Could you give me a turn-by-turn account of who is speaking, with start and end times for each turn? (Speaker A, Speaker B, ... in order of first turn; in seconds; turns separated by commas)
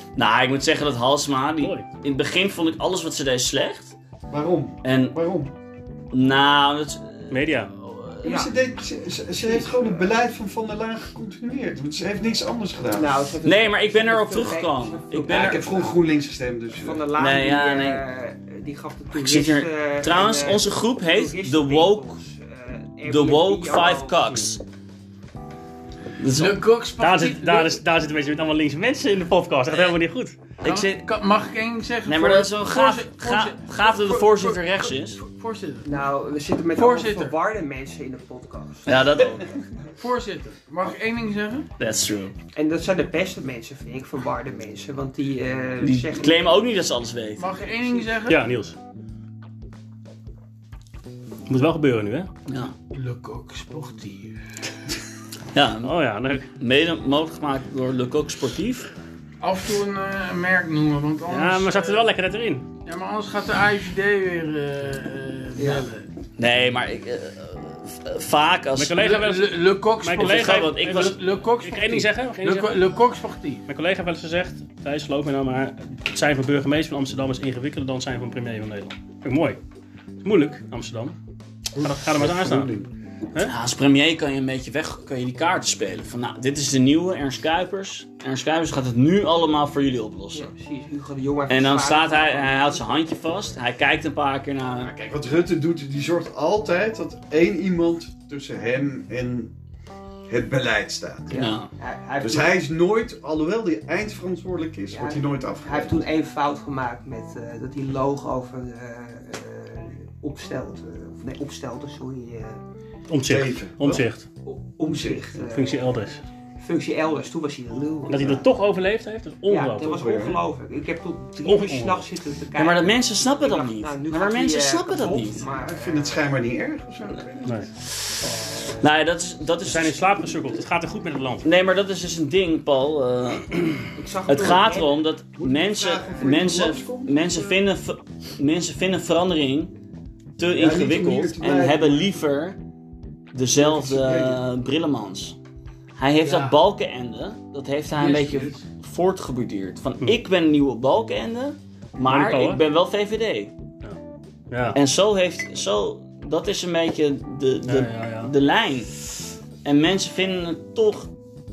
Speaker A: 0.2-4.0, Speaker B: 1.6-1.9, Speaker C: 4.3-5.5, Speaker A: 4.8-5.2, Speaker A: 6.1-8.3, Speaker B: 7.3-7.7, Speaker D: 8.2-8.5, Speaker C: 8.2-13.2, Speaker D: 9.4-10.1, Speaker D: 12.9-16.0, Speaker A: 13.4-15.7, Speaker C: 15.2-17.0, Speaker D: 16.7-24.4, Speaker A: 17.2-18.0, Speaker A: 19.1-22.0, Speaker A: 23.1-24.6, Speaker A: 26.2-26.6, Speaker E: 26.3-27.8, Speaker B: 27.0-30.4, Speaker A: 30.6-31.1, Speaker E: 30.6-35.9, Speaker A: 32.0-35.2, Speaker D: 35.8-39.2, Speaker E: 36.7-37.4, Speaker A: 38.9-39.5, Speaker E: 39.9-41.7, Speaker A: 41.8-42.3, Speaker D: 42.5-46.5, Speaker A: 45.8-47.6, Speaker E: 47.4-48.4, Speaker B: 48.3-48.8, Speaker B: 51.5-52.3, Speaker A: 52.5-52.7, Speaker E: 52.9-54.4, Speaker A: 55.5-55.9, Speaker B: 55.8-56.5, Speaker A: 56.5-58.9, Speaker E: 59.4-62.0, Speaker B: 61.3-62.7, Speaker E: 62.8-66.1, Speaker D: 65.6-65.9, Speaker A: 66.4-69.0, Speaker B: 68.8-72.8, Speaker E: 69.0-73.7, Speaker A: 70.2-71.2, Speaker B: 73.7-79.6, Speaker B: 80.2-81.2, Speaker C: 81.8-82.9, Speaker B: 81.8-82.7, Speaker A: 83.4-90.5, Speaker D: 90.3-93.6, Speaker A: 91.5-94.9, Speaker C: 94.8-99.5, Speaker C: 100.3-101.4, Speaker D: 101.3-102.6, Speaker A: 101.3-101.7, Speaker C: 102.2-106.0, Speaker D: 104.9-112.6, Speaker B: 113.1-114.3, Speaker C: 113.2-114.1, Speaker D: 114.5-118.5, Speaker C: 114.8-115.2, Speaker B: 115.4-116.2, Speaker B: 118.1-120.1, Speaker D: 119.5-126.3, Speaker C: 119.9-120.4, Speaker B: 121.5-122.0, Speaker A: 122.6-125.4, Speaker C: 125.4-127.7, Speaker A: 127.9-130.2, Speaker B: 129.6-131.5, Speaker A: 131.4-139.7, Speaker D: 133.9-135.1, Speaker C: 135.4-137.6, Speaker D: 136.2-136.4, Speaker A: 140.4-142.6, Speaker C: 140.5-142.2, Speaker A: 143.3-145.4, Speaker C: 143.6-144.4, Speaker A: 146.0-153.5, Speaker E: 146.2-146.6, Speaker E: 147.9-148.7, Speaker B: 152.1-152.6, Speaker B: 154.5-154.8, Speaker A: 154.7-159.0, Speaker B: 157.7-158.3, Speaker A: 159.6-161.1